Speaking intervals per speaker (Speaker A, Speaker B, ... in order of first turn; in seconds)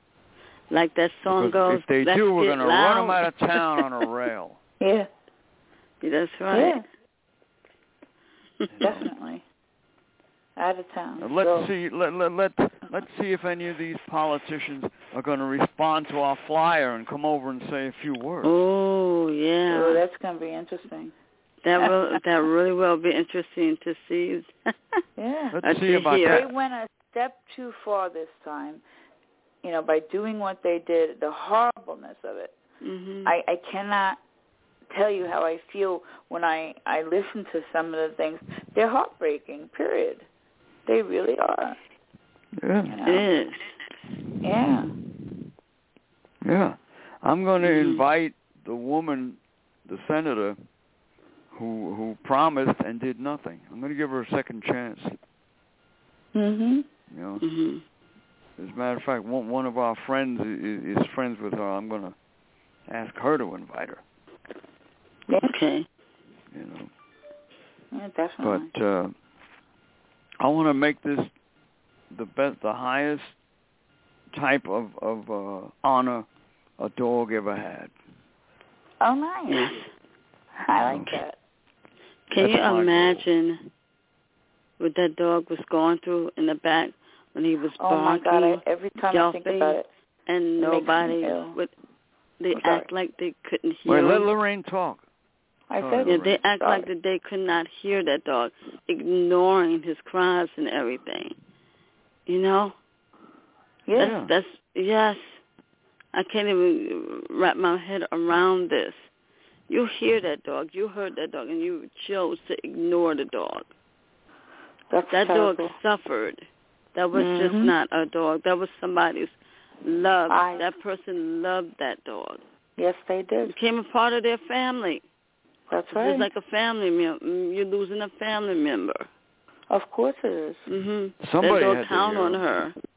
Speaker A: 0.7-3.8, 6.0-6.8, 18.4-20.0, 21.6-24.5, 25.6-26.4, 32.8-33.3, 43.0-43.6, 47.6-48.0, 57.4-57.8, 65.4-65.9, 79.5-79.9, 82.3-83.7, 84.8-91.7, 92.4-94.3, 96.0-101.4, 102.3-102.7, 103.9-105.4, 106.1-109.1, 109.7-113.7, 115.1-116.4, 116.9-122.4, 123.5-125.0, 125.9-129.1, 130.7-132.7
Speaker B: 1.3-4.6, 8.7-9.1, 11.2-18.5, 25.5-26.5, 42.5-43.0, 44.5-45.3, 46.4-50.6, 51.5-55.2, 57.1-57.4, 58.6-62.1, 62.9-64.0, 66.5-66.9, 68.4-69.1, 70.4-71.3, 72.1-73.3, 74.3-76.3, 76.8-77.9, 80.8-81.1, 82.3-83.3, 93.9-95.0, 95.8-96.4, 104.0-104.3, 131.2-132.4
Speaker C: 4.8-5.1, 6.5-6.8, 8.8-9.4, 10.6-11.7, 19.7-21.1, 21.8-22.2, 25.2-25.6, 26.2-28.8, 29.6-32.5, 33.2-34.2, 34.9-40.3, 40.9-41.8, 42.9-43.3, 44.4-44.9, 56.3-56.9, 65.3-65.5, 67.9-68.7, 79.0-79.8, 80.6-81.4, 87.8-89.9, 90.6-91.6, 92.6-92.9, 95.7-96.9, 103.9-104.1, 114.9-115.7, 117.1-117.7, 120.3-120.7, 122.8-123.5, 125.7-126.3, 129.7-130.6